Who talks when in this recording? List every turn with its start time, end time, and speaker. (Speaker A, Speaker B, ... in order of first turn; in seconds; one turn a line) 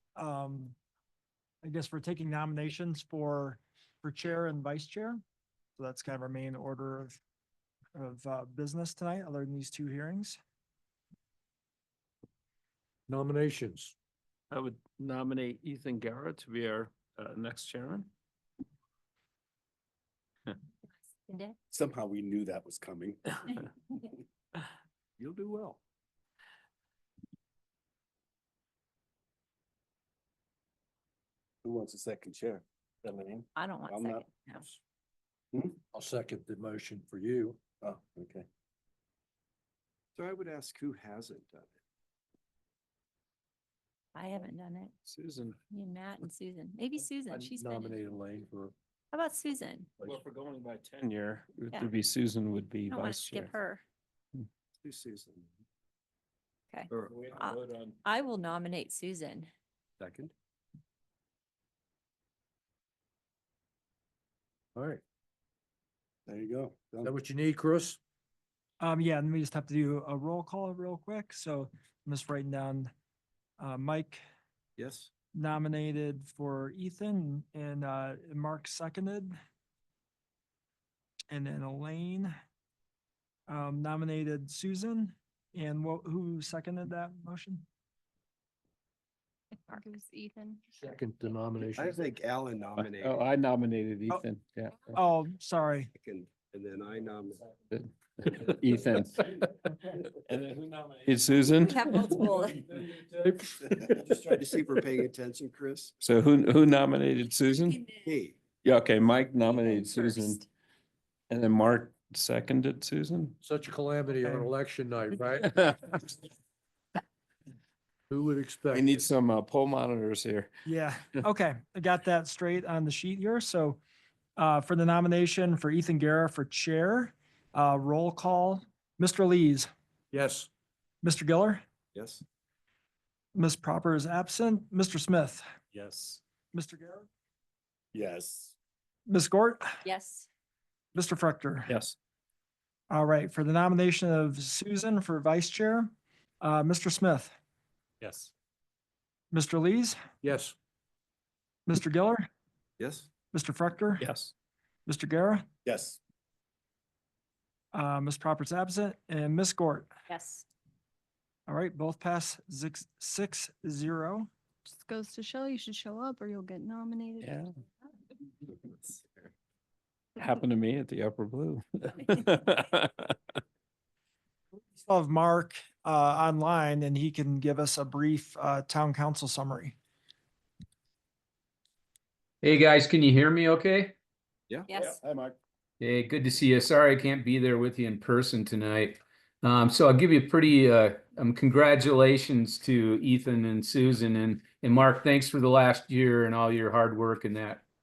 Speaker A: 0.2-0.8
Speaker A: 1.6-5.2
Speaker A: 5.8-7.2
Speaker A: 8.0-10.4
Speaker B: 13.1-13.9
Speaker C: 14.5-18.1
Speaker D: 21.1-21.6
Speaker E: 21.7-23.2
Speaker E: 25.2-25.8
Speaker E: 31.6-34.2
Speaker D: 33.6-34.7
Speaker B: 35.9-37.6
Speaker E: 37.8-38.5
Speaker E: 40.2-41.8
Speaker D: 44.1-44.9
Speaker C: 45.0-45.6
Speaker D: 45.7-48.0
Speaker B: 47.4-48.7
Speaker D: 49.1-49.9
Speaker C: 50.0-53.6
Speaker D: 52.9-53.8
Speaker E: 54.8-55.5
Speaker D: 56.7-59.5
Speaker C: 57.0-58.0
Speaker E: 60.0-60.3
Speaker B: 64.8-65.0
Speaker E: 66.3-67.1
Speaker B: 67.0-68.0
Speaker A: 68.8-72.9
Speaker A: 73.6-74.2
Speaker E: 74.8-75.1
Speaker A: 75.3-79.3
Speaker A: 81.3-82.3
Speaker A: 83.5-87.7
Speaker F: 89.7-90.8
Speaker B: 90.8-92.0
Speaker E: 91.8-93.2
Speaker C: 92.8-95.0
Speaker A: 94.9-95.9
Speaker E: 96.0-97.4
Speaker C: 97.7-99.5
Speaker C: 100.2-103.9
Speaker D: 101.6-102.6
Speaker E: 103.9-105.9
Speaker C: 106.0-107.8
Speaker E: 107.9-108.4
Speaker C: 108.6-110.4
Speaker D: 110.0-110.4
Speaker C: 111.3-113.4
Speaker B: 113.4-115.5
Speaker A: 114.2-114.5
Speaker C: 115.4-116.2
Speaker B: 118.1-119.1
Speaker C: 118.7-120.5
Speaker A: 120.7-123.8
Speaker A: 124.4-129.7
Speaker B: 130.1-130.5
Speaker A: 131.0-131.6
Speaker E: 131.9-132.2
Speaker A: 133.3-135.4
Speaker C: 135.8-136.2
Speaker A: 136.5-137.1
Speaker E: 137.9-138.5
Speaker A: 139.1-139.8
Speaker D: 139.8-140.3
Speaker A: 140.9-141.7
Speaker C: 141.7-141.9
Speaker A: 142.9-147.3
Speaker A: 149.3-150.0
Speaker B: 150.2-150.6
Speaker A: 151.7-152.3
Speaker E: 152.8-153.1
Speaker A: 153.3-154.1
Speaker C: 154.0-154.3
Speaker A: 154.9-155.5
Speaker E: 155.7-156.0
Speaker A: 157.7-159.9
Speaker D: 160.1-160.5
Speaker A: 161.5-164.3
Speaker F: 164.7-167.3
Speaker C: 167.2-167.5
Speaker E: 168.6-169.3
Speaker C: 170.2-173.2
Speaker A: 174.6-179.8
Speaker G: 182.4-183.9
Speaker E: 184.5-185.3
Speaker D: 184.7-185.0
Speaker G: 185.8-197.6